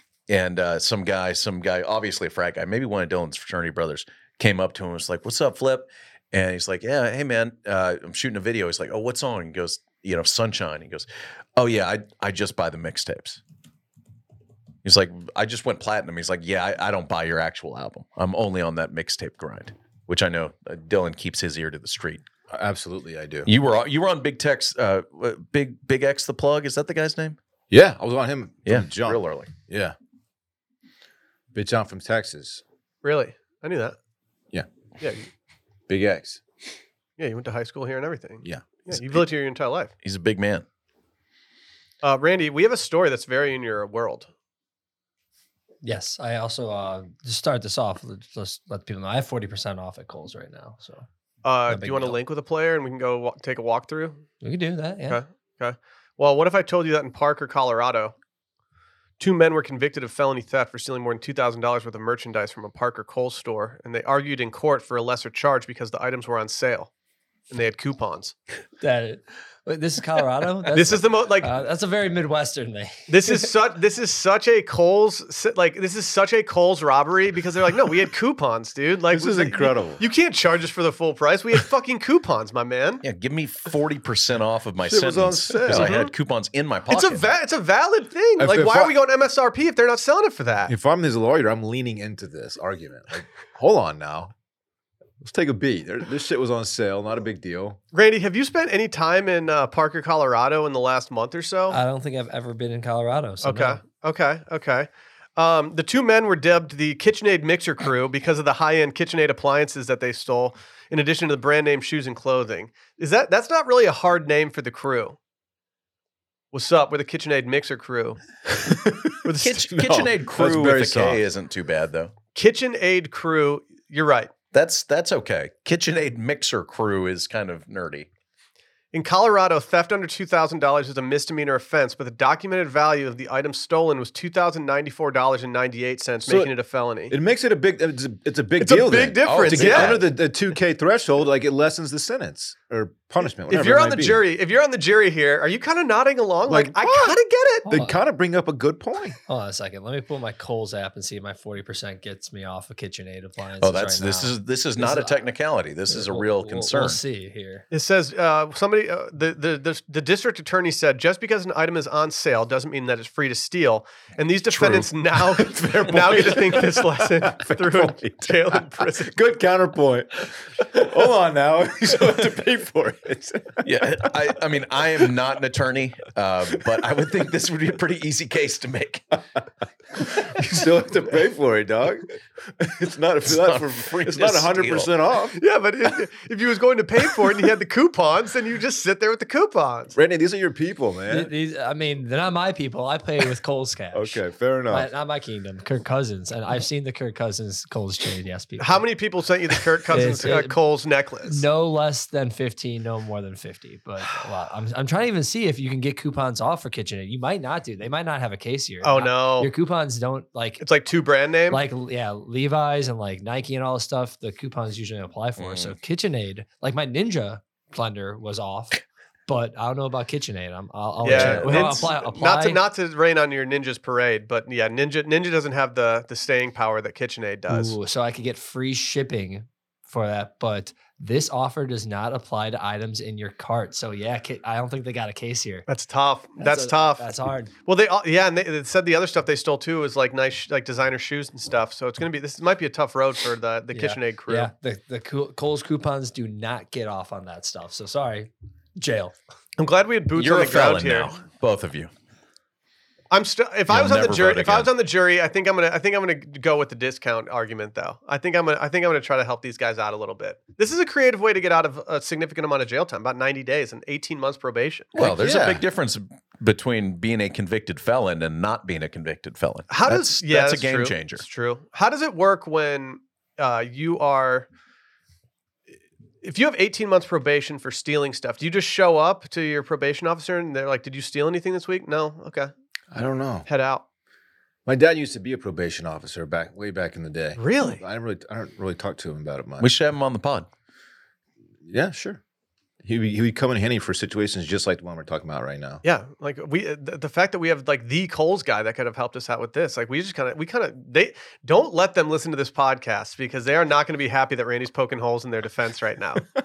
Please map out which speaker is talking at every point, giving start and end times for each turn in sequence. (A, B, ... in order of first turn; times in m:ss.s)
0:00.3-0:13.4 A
0:14.8-0:22.2 A
0:22.5-0:23.5 B
0:23.4-0:27.4 A
0:27.7-0:30.0 B
0:28.7-0:29.5 A
0:31.5-0:32.6 B
0:33.0-0:34.0 C
0:35.0-0:35.3 C
0:35.9-0:36.4 B
0:37.2-0:39.9 C
0:38.4-0:39.2 B
0:40.0-0:40.7 A
0:42.0-0:44.3 C
0:45.8-0:51.0 D
0:51.4-0:54.2 C
0:51.7-0:52.2 B
0:54.4-0:55.2 D
0:55.1-0:58.1 C
0:59.2-1:06.9 C
1:07.5-1:08.4 C
1:08.8-1:13.4 D
1:10.7-1:11.5 C
1:13.1-1:23.0 C
1:19.1-1:20.0 B
1:23.0-1:27.2 A
1:24.8-1:26.0 B
1:25.7-1:26.1 C
1:26.9-1:30.7 C
1:28.4-1:28.9 B
1:30.7-1:34.3 B
1:35.2-1:37.8 B
1:37.9-1:41.8 C
1:41.7-1:43.8 D
1:43.4-1:55.2 C
1:56.5-1:58.2 C
1:58.5-2:01.2 B
1:59.2-2:00.0 C
1:59.4-2:02.1 A
2:02.4-2:04.3 C
2:04.5-2:08.1 A
2:08.9-2:17.2 C
2:16.2-2:16.5 B
2:17.1-2:24.2 B
2:18.6-2:20.1 C
2:19.2-2:20.1 A
2:23.5-2:27.7 C
2:26.5-2:29.2 B
2:27.7-2:28.0 D
2:29.3-2:35.2 D
2:33.6-2:37.0 A
2:35.9-2:37.7 D
2:37.7-2:49.2 C
2:44.5-2:54.0 B
2:53.6-2:59.3 A
3:00.0-3:05.4 B
3:03.2-3:04.9 A
3:05.4-3:10.0 C
3:09.9-3:11.3 B
3:11.1-3:18.9 D
3:13.9-3:14.9 B
3:18.6-3:21.4 C
3:19.9-3:20.6 D
3:21.3-3:30.6 D
3:28.8-3:29.5 C
3:30.6-3:31.6 C
3:31.5-3:42.6 D
3:35.4-3:35.8 A
3:41.0-3:47.8 C
3:41.1-3:41.5 A
3:41.1-3:41.8 B
3:47.5-3:55.7 D
3:55.7-3:57.1 C
3:56.4-3:57.5 D
3:57.7-4:04.5 C
4:03.7-4:09.2 D
4:09.6-4:11.1 C
4:10.2-4:11.9 A
4:13.1-4:25.2 C
4:13.7-4:14.7 A
4:25.0-4:31.2 A
4:25.0-4:25.6 B
4:29.7-4:34.5 C
4:36.2-4:42.5 C
4:42.9-4:43.5 B
4:43.5-4:43.8 C
4:44.7-4:49.7 B
4:47.4-4:47.8 C
4:49.6-4:50.5 A
4:51.6-4:52.2 B
4:52.8-4:55.8 B
4:55.8-5:06.3 C